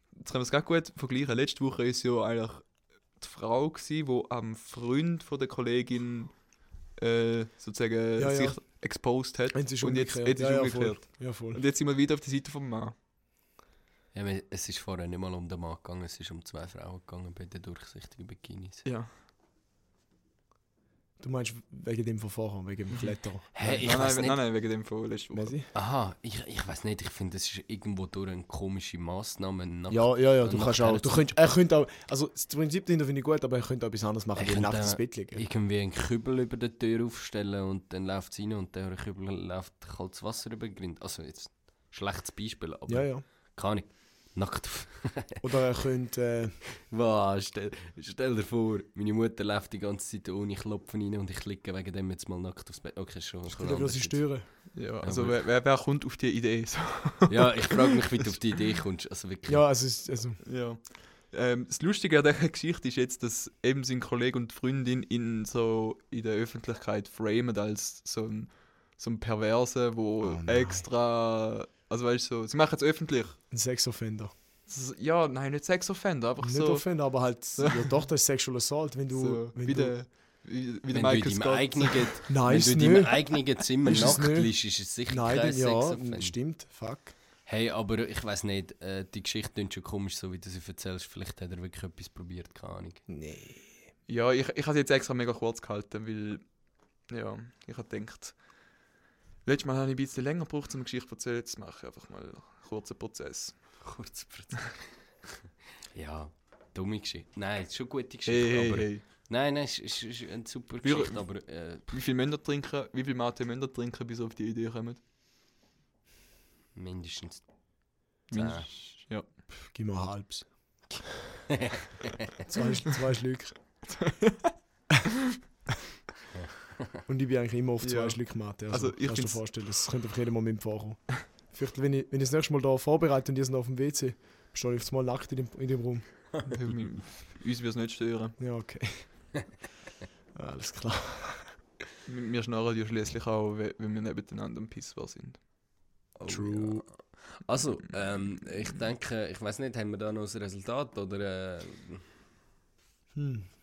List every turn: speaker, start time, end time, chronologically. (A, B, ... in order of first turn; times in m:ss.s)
0:00.2-0:06.4 A
0:07.0-0:12.9 A
0:08.2-0:08.6 B
0:09.5-0:11.6 B
0:14.1-0:18.8 C
0:18.8-0:19.1 A
0:21.2-0:23.9 B
0:22.9-0:25.5 A
0:23.5-0:24.4 C
0:25.3-0:25.7 B
0:25.7-0:31.3 C
0:29.9-0:35.4 B
0:34.4-0:45.4 C
0:42.9-0:43.2 B
0:45.4-0:46.6 B
0:46.8-0:55.4 C
0:53.5-0:54.5 B
0:54.7-0:58.3 A
0:57.3-0:59.6 C
0:59.5-1:00.4 B
1:00.4-1:13.4 A
1:10.2-1:10.8 B
1:13.5-1:14.3 B
1:14.7-1:16.9 A
1:16.4-1:19.9 B
1:17.6-1:18.0 A
1:19.1-1:22.2 A
1:20.9-1:26.3 C
1:22.3-1:24.5 B
1:25.1-1:27.1 B
1:27.4-1:33.0 C
1:33.1-1:33.7 B
1:34.1-1:36.4 A
1:37.1-1:38.3 A
1:39.4-1:43.8 A
1:43.8-1:44.9 C
1:45.9-1:51.9 C
1:48.3-1:49.0 A
1:50.8-1:51.2 A
1:51.9-1:55.0 A
1:56.7-1:57.4 C
1:58.3-1:59.3 A
1:58.3-1:58.7 C
1:59.7-2:00.5 B
2:01.5-2:02.3 C
2:02.5-2:03.6 B
2:03.9-2:04.5 A
2:06.3-2:06.9 C
2:07.1-2:16.0 B
2:07.8-2:08.2 A
2:08.7-2:09.4 A
2:16.4-2:18.4 A
2:18.4-2:19.1 B
2:20.3-2:21.5 B
2:22.0-2:25.4 A
2:26.2-2:32.0 C
2:26.2-2:26.8 B
2:33.1-2:33.5 B